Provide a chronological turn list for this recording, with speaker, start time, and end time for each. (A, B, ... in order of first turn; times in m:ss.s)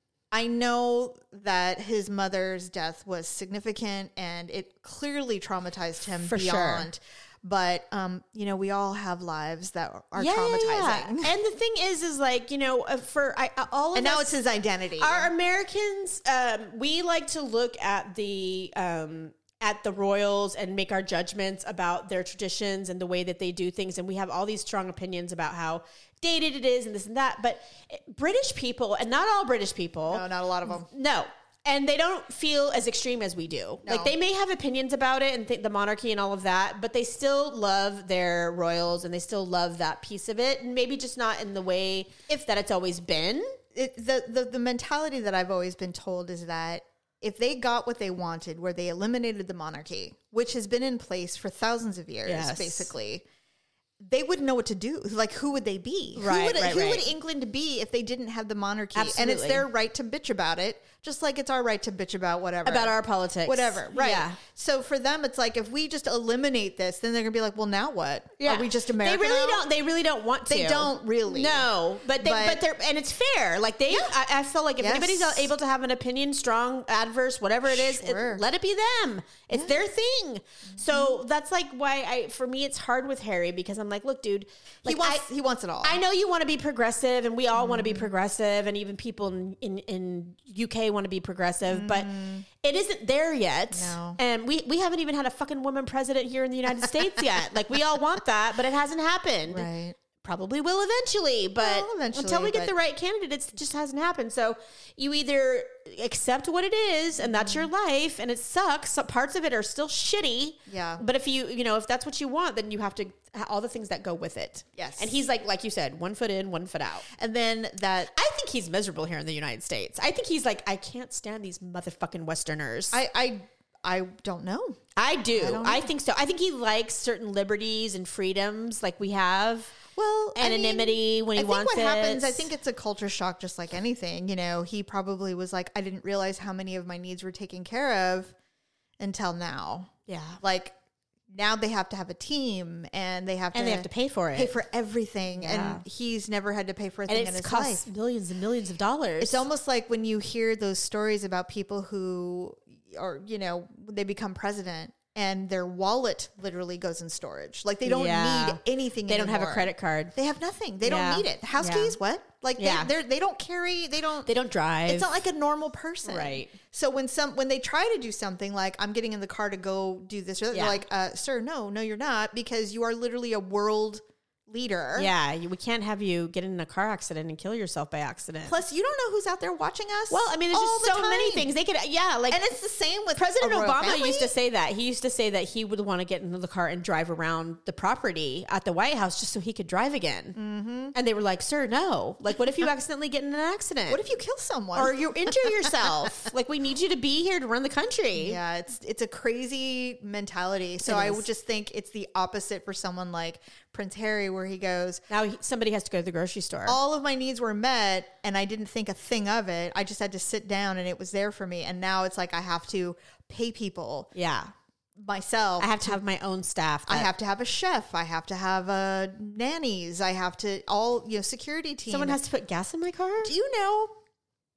0:00.3-0:11.3 A
0:06.2-0:06.9 B
0:10.1-0:14.4 B
0:13.9-0:15.3 A
0:15.0-0:43.6 B
0:30.1-0:30.9 A
0:33.8-0:34.1 A
0:43.7-0:53.2 A
0:52.2-0:52.9 B
0:54.0-1:09.6 A
0:56.2-0:57.1 B
0:58.9-0:59.7 B
1:02.6-1:04.4 B
1:08.4-1:25.2 B
1:10.5-1:12.6 A
1:13.9-1:14.1 A
1:14.8-1:15.5 A
1:17.7-1:18.4 A
1:19.5-1:19.8 A
1:20.7-1:21.1 A
1:24.8-1:26.0 A
1:25.8-1:39.7 B
1:27.5-1:28.1 A
1:31.6-1:32.4 A
1:33.7-1:34.2 A
1:39.5-1:40.0 A
1:40.2-1:57.0 B
1:41.6-1:42.7 A
1:47.2-1:47.7 A
1:50.7-1:51.0 A
1:54.8-1:55.2 A
1:57.1-1:58.1 A
1:58.1-2:03.0 B
2:02.9-2:04.8 A
2:05.0-2:09.7 B
2:05.3-2:05.9 A
2:09.9-2:18.3 A
2:10.3-2:12.5 B
2:19.0-2:20.8 A
2:20.1-2:20.4 B
2:21.3-2:27.8 A
2:23.5-2:24.5 B
2:25.4-2:25.8 B
2:27.1-2:29.4 B
2:29.2-2:44.3 A
2:37.8-2:40.1 B
2:40.8-2:42.0 B
2:42.6-2:42.9 B
2:44.2-2:45.1 B
2:44.8-2:55.1 A
2:46.0-2:46.5 B
2:50.5-2:50.8 B
2:55.0-2:58.6 B
2:58.4-3:01.5 A
3:00.1-3:02.4 B
3:02.3-3:04.3 A
3:03.2-3:10.4 B
3:10.4-3:10.9 A
3:10.9-3:14.0 B
3:13.9-3:16.2 A
3:14.7-3:18.4 B
3:18.1-3:25.0 A
3:20.8-3:21.2 B
3:25.1-3:26.8 B
3:26.6-3:34.1 A
3:34.1-3:34.5 B
3:35.0-3:36.0 A
3:35.6-3:37.1 B
3:36.9-3:42.2 A
3:41.9-3:43.3 B
3:43.2-3:43.9 A